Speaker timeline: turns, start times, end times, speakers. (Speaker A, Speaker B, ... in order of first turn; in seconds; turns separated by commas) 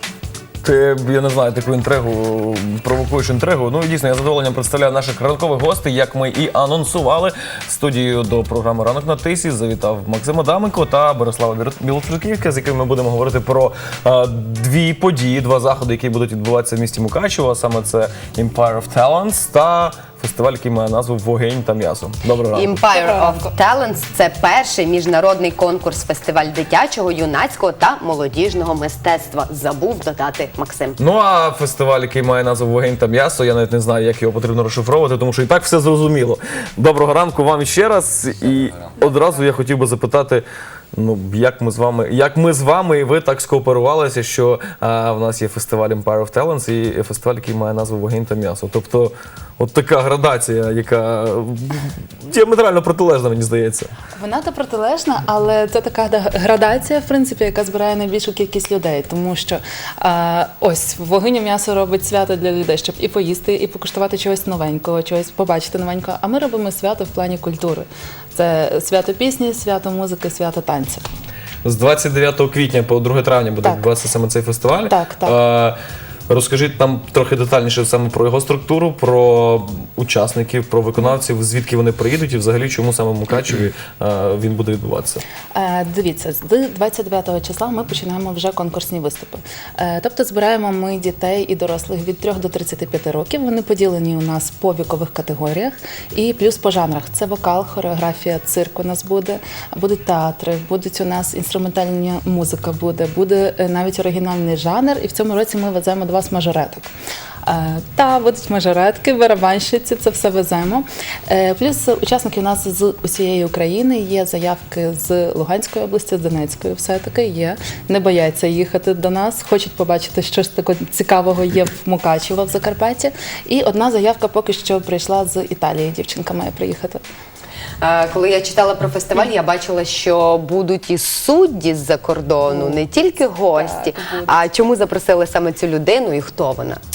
Speaker A: 0.6-22.8, Speaker B: 22.5-31.0, Speaker C: 22.9-23.5, Speaker A: 31.0-53.9, Speaker C: 54.1-71.0, Speaker A: 71.6-75.8, Speaker C: 74.8-75.3, Speaker A: 76.3-85.2, Speaker C: 85.5-106.9, Speaker C: 107.4-127.0, Speaker B: 127.8-136.8, Speaker C: 132.5-132.8, Speaker C: 133.5-134.4